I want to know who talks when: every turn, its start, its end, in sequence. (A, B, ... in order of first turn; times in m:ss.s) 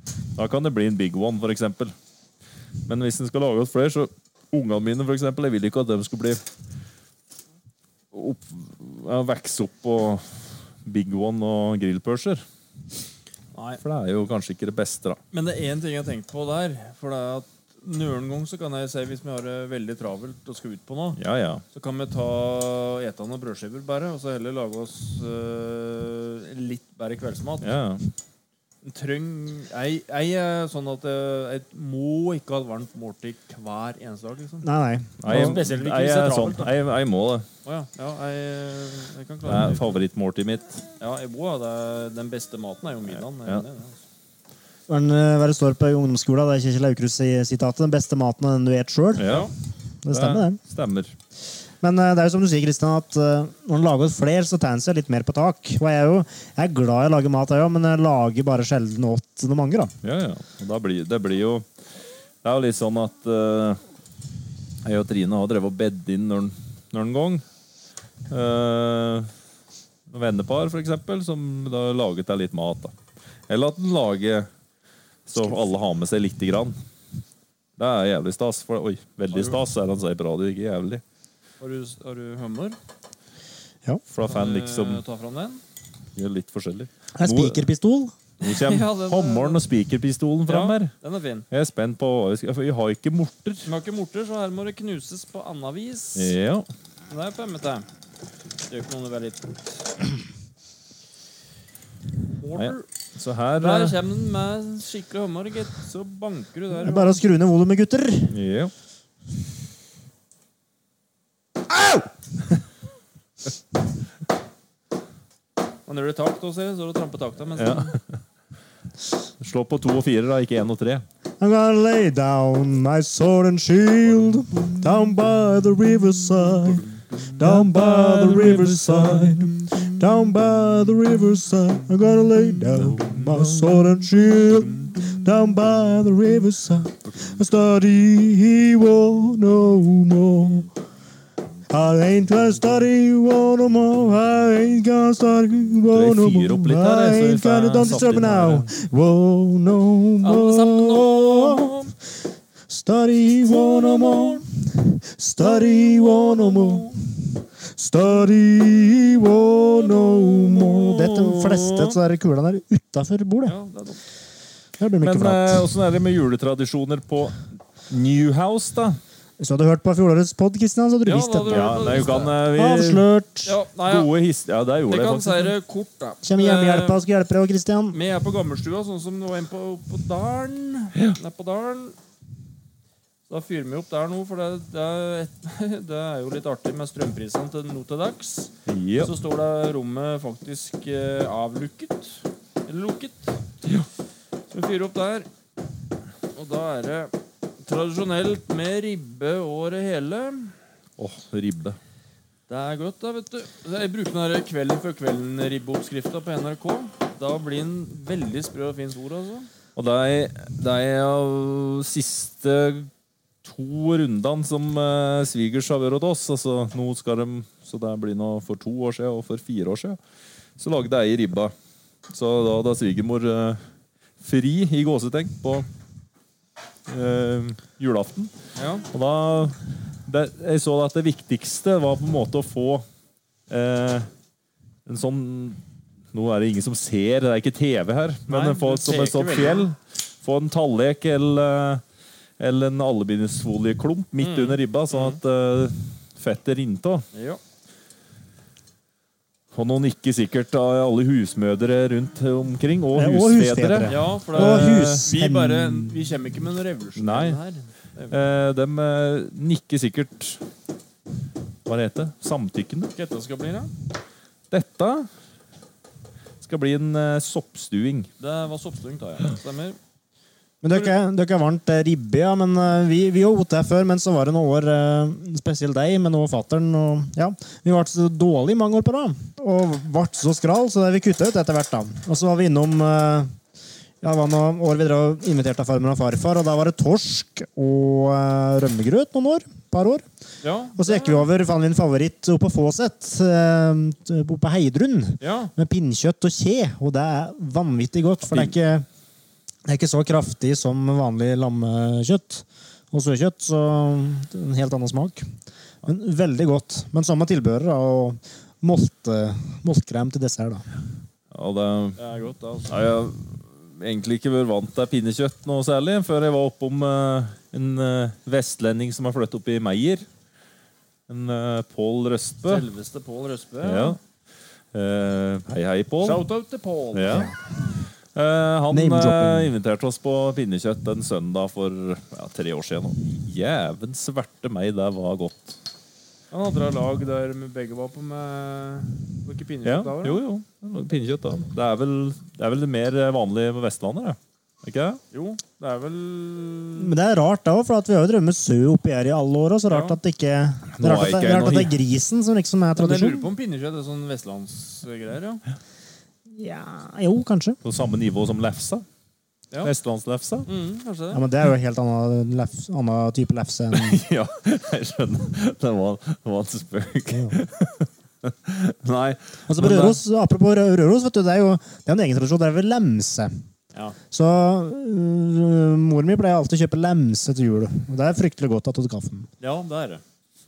0:00.4-0:01.9 A
0:02.8-0:06.4 A
0:08.1-0:12.4 A
0:13.5-0:13.8 B
0:13.8-0:15.2 A
0:15.3-0:21.2 B
0:21.2-0:21.6 A
0:21.7-0:27.7 B
0:27.6-0:28.0 A
0:28.8-0:34.7 B
0:34.6-0:35.6 C
0:35.2-0:37.5 A
0:35.2-0:36.7 B
0:37.6-0:40.0 B
0:39.4-0:40.8 A
0:41.0-0:44.0 B
0:44.9-0:49.3 C
0:49.2-0:49.5 A
0:49.2-0:49.5 B
0:50.0-0:50.6 C
0:50.1-0:51.2 A
0:51.8-0:59.9 C
1:00.0-1:01.7 A
1:02.4-1:03.8 A
1:04.8-1:07.4 A
1:08.3-1:09.3 A
1:10.1-1:12.9 A
1:13.5-1:14.5 A
1:15.2-1:16.8 A
1:17.8-1:21.0 A
1:19.3-1:19.6 B
1:21.6-1:22.8 B
1:24.1-1:25.0 A
1:24.2-1:25.6 B
1:26.2-1:27.7 A
1:27.1-1:28.1 C
1:28.4-1:30.9 A
1:28.4-1:29.6 B
1:30.5-1:31.4 B
1:31.5-1:33.7 A
1:33.6-1:36.3 B
1:36.2-1:36.7 A
1:37.1-1:37.9 B
1:38.7-1:39.6 B
1:42.4-1:42.9 B
1:42.5-1:44.0 A
1:43.6-1:47.2 B
1:46.8-1:48.4 C
1:48.3-1:48.7 A
1:55.9-1:58.0 B
1:57.6-1:58.2 A
1:59.4-2:01.0 A
2:01.4-2:20.7 C
2:07.4-2:09.5 A
2:12.8-2:13.4 A
2:21.7-2:31.8 C
2:25.9-2:28.7 A
2:30.2-2:31.9 B
2:32.7-2:43.5 C
2:33.5-2:34.4 B
2:35.4-2:37.0 B
2:40.0-2:42.0 A
2:43.4-2:44.0 B
2:44.8-2:45.7 C
2:45.0-2:49.0 A
2:49.4-2:53.5 C
2:51.0-2:52.4 B
2:51.5-2:53.0 A
2:53.4-2:54.1 B
2:53.9-2:55.5 A
2:54.9-2:57.0 B
2:56.2-2:58.0 C
2:57.9-3:02.0 B
3:03.3-3:13.4 B
3:08.7-3:09.1 A
3:14.5-3:15.3 B
3:16.3-3:20.6 B
3:21.0-3:21.8 A
3:22.5-3:29.5 B
3:29.8-3:32.9 A
3:33.4-3:40.0 A
3:40.6-3:41.5 A
3:42.1-3:43.7 A
3:44.2-3:45.6 A
3:46.9-3:48.3 A
3:48.6-3:48.8 B
3:48.8-3:52.8 A
3:53.5-3:54.1 A
3:54.8-3:55.6 A
3:56.1-4:01.8 A
3:58.3-3:59.7 B
4:02.4-4:07.0 A
4:04.2-4:05.2 B
4:07.1-4:07.4 B
4:09.5-4:15.0 A
4:12.9-4:16.1 C
4:13.9-4:18.2 B
4:17.0-4:17.4 A
4:18.1-4:20.4 A
4:21.6-4:22.9 A
4:22.9-4:23.7 B
4:24.5-4:25.1 A
4:26.4-4:28.1 A
4:28.2-4:29.8 B
4:30.6-4:43.4 C
4:44.0-4:50.0 C
4:50.4-4:51.3 B
4:50.8-4:58.9 C
4:55.2-4:55.5 B
4:58.3-4:58.5 A
4:59.6-5:05.3 C
5:05.8-5:10.6 C
5:11.3-5:12.0 A
5:12.0-5:12.8 B
5:12.7-5:20.0 A
5:21.1-5:22.6 A
5:22.4-5:24.0 B
5:23.6-5:24.0 A
5:24.7-5:26.2 A
5:26.0-5:27.3 B
5:26.9-5:27.3 A
5:27.1-5:27.4 C
5:28.1-5:35.6 A
5:28.7-5:29.5 C
5:36.3-5:40.2 B
5:39.6-5:45.0 A
5:45.1-5:46.9 B
5:46.8-5:53.3 C
5:49.7-5:50.0 B
5:50.7-5:51.8 A
5:52.8-5:55.4 B
5:56.3-5:57.6 C
5:57.6-5:58.8 A
5:59.6-6:00.5 A
6:00.4-6:01.2 B
6:01.1-6:04.0 C
6:03.7-6:10.0 A
6:07.1-6:07.4 C
6:09.5-6:13.3 C
6:14.1-6:19.3 C
6:19.4-6:20.0 B